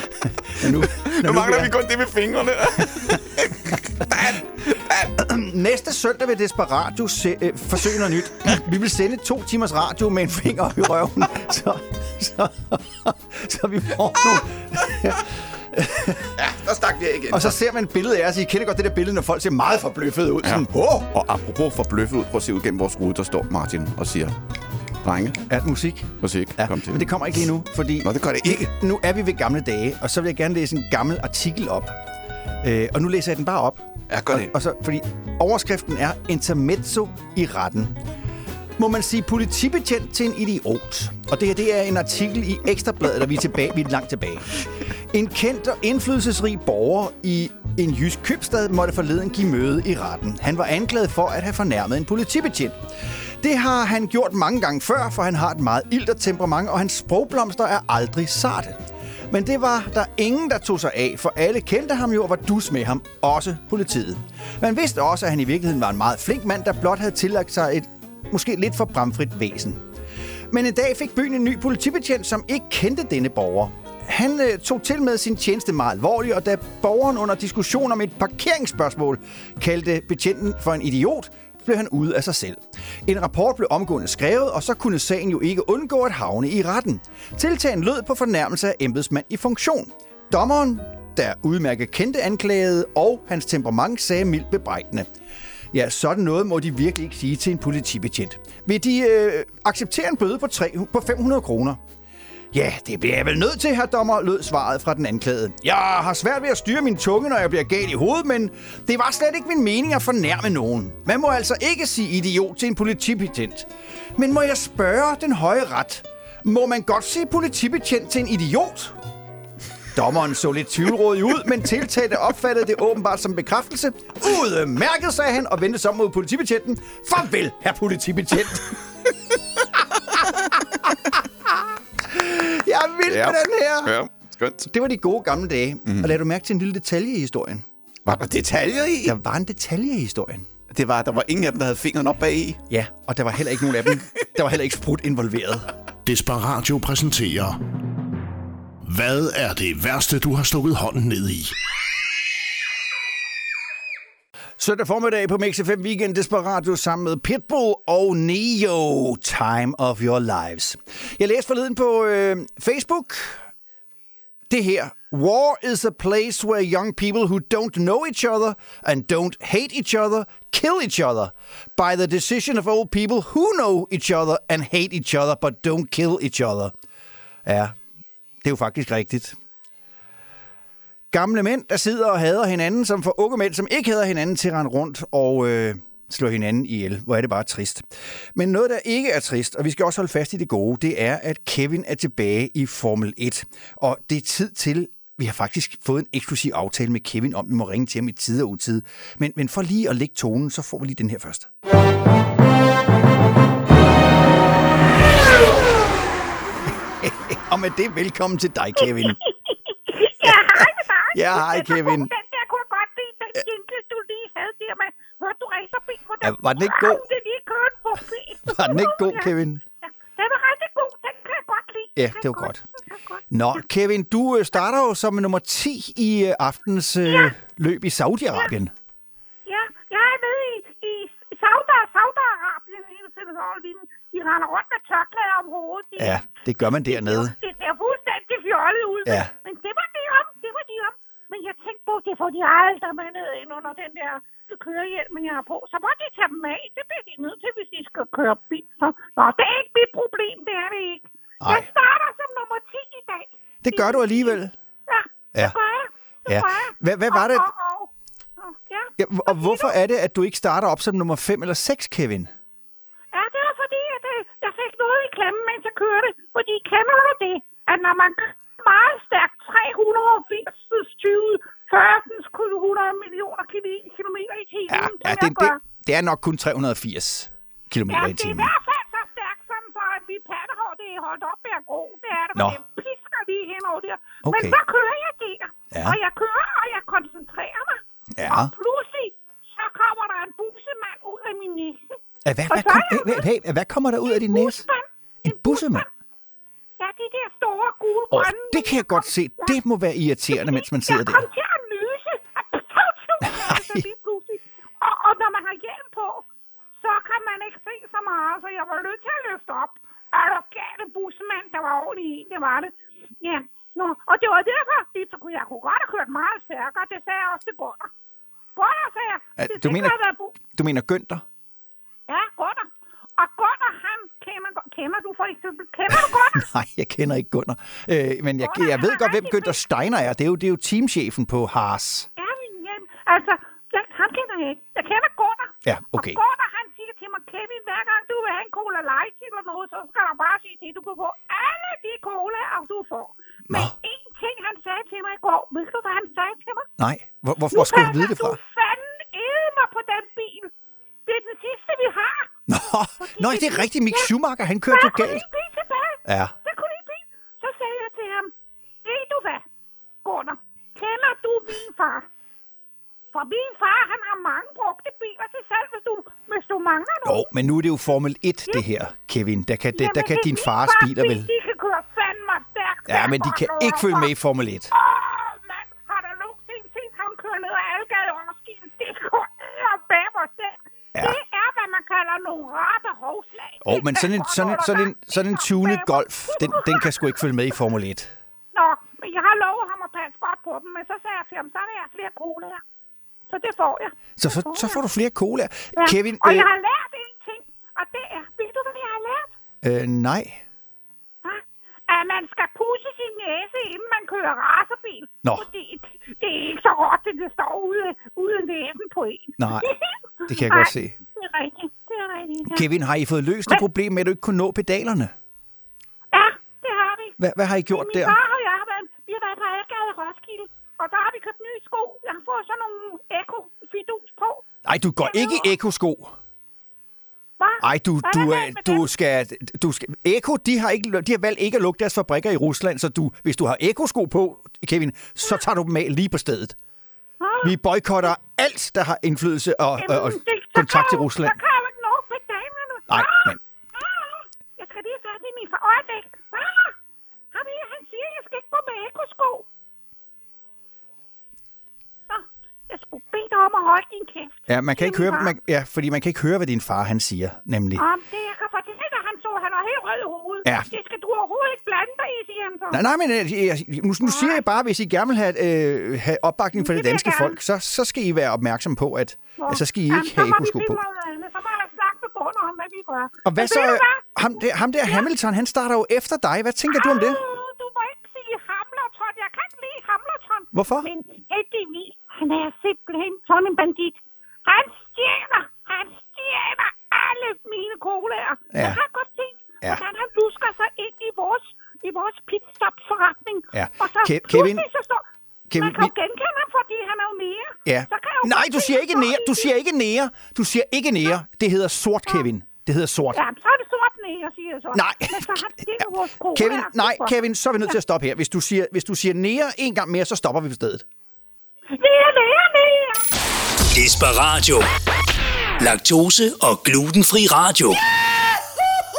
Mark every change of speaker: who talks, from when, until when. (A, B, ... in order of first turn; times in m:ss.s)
0:00.4-0:01.7 A
0:00.6-0:05.1 B
0:05.1-0:16.3 A
0:16.4-0:17.6 B
0:17.3-0:21.1 A
0:20.4-0:24.4 B
0:25.0-0:25.4 B
0:25.5-0:32.0 A
0:26.2-0:27.1 B
0:28.0-0:28.7 B
0:32.6-0:38.0 A
0:34.1-0:34.5 B
0:38.8-0:44.5 A
0:45.1-0:52.8 A
0:53.4-0:58.8 A
0:59.3-1:09.8 A
1:10.5-1:35.1 A
1:35.7-1:41.8 A
1:42.5-1:59.0 A
2:00.0-2:08.8 A
2:12.0-2:14.0 A
2:13.1-2:14.7 B
2:14.7-2:17.6 A
2:15.9-2:16.2 B
2:18.1-2:19.2 B
2:19.0-2:20.5 A
2:20.7-2:22.6 B
2:22.7-2:25.7 A
2:26.0-2:27.6 C
2:28.8-2:31.6 C
2:34.6-2:43.4 A
2:44.5-2:56.7 A
2:57.5-2:57.8 A
2:58.4-2:59.4 A
3:01.1-3:21.5 A
3:27.0-3:29.2 A
3:28.8-3:39.3 D
3:30.2-3:32.1 A
3:36.2-3:37.0 A
3:38.5-3:39.6 A
3:40.1-3:43.2 D
3:42.0-3:42.6 A
3:43.3-3:48.7 A
3:47.1-3:47.3 D
3:49.5-3:56.3 D
3:56.0-3:57.4 A
3:56.8-4:19.7 D
4:11.4-4:11.7 A
4:13.6-4:14.5 A
4:16.3-4:17.5 A
4:19.0-4:22.3 A
4:23.1-4:35.6 D
4:34.7-4:38.5 A
4:37.9-4:53.3 D
4:42.4-4:42.6 A
4:44.2-4:44.6 A
4:45.7-4:46.0 A
4:48.2-4:48.5 A
4:52.2-4:54.6 A
4:54.1-4:55.9 D
4:55.2-4:55.9 A
4:56.8-4:59.6 D
4:58.1-5:01.3 A
5:00.3-5:17.9 D
5:03.3-5:03.8 A
5:18.6-5:20.3 D
5:19.4-5:21.2 A
5:22.1-5:26.5 D
5:25.9-5:32.1 A
5:28.4-5:29.6 D
5:32.2-5:46.7 D
5:35.7-5:36.2 A
5:46.8-5:48.4 A
5:47.5-5:50.5 D
5:51.1-5:52.4 D
5:52.5-5:55.2 A
5:53.0-5:54.1 D
5:54.7-5:58.3 D
5:56.1-5:56.3 A
5:58.8-5:59.5 D
6:00.0-6:02.1 D
6:03.1-6:07.3 D
6:07.0-6:11.3 A
6:09.7-6:14.1 D
6:12.9-6:14.7 A
6:14.7-6:27.0 D
6:23.6-6:28.1 A
6:28.5-6:32.6 D
6:33.3-6:34.8 D
6:34.2-6:36.5 A
6:35.8-6:39.3 D
6:39.6-6:40.4 A
6:41.2-6:52.7 D
6:49.4-6:49.7 A
6:50.3-6:51.0 A
6:52.5-6:55.1 A
6:56.1-7:04.4 D
6:57.2-6:58.2 A
7:04.6-7:06.2 A
7:05.0-7:05.5 D
7:07.4-7:08.9 D
7:07.6-7:16.6 A
7:17.2-7:17.5 D
7:17.4-7:21.4 A
7:19.8-7:26.8 D
7:22.9-7:23.4 A
7:27.3-7:29.5 D
7:32.1-7:35.3 D
7:34.5-7:37.8 A
7:37.8-7:42.8 D
7:40.4-7:40.7 A
7:42.7-7:50.8 A
7:44.0-7:44.4 D
7:46.6-7:47.4 D
7:49.4-7:54.0 D
7:53.2-7:57.2 A
7:56.7-8:19.5 D
8:00.5-8:00.9 A
8:08.5-8:08.8 A
8:13.5-8:14.6 A
8:15.5-8:15.9 A
8:17.7-8:23.2 A
8:23.1-8:27.7 D
8:24.7-8:30.8 A
8:31.7-8:33.1 D
8:33.7-8:34.7 E
8:35.6-8:37.8 E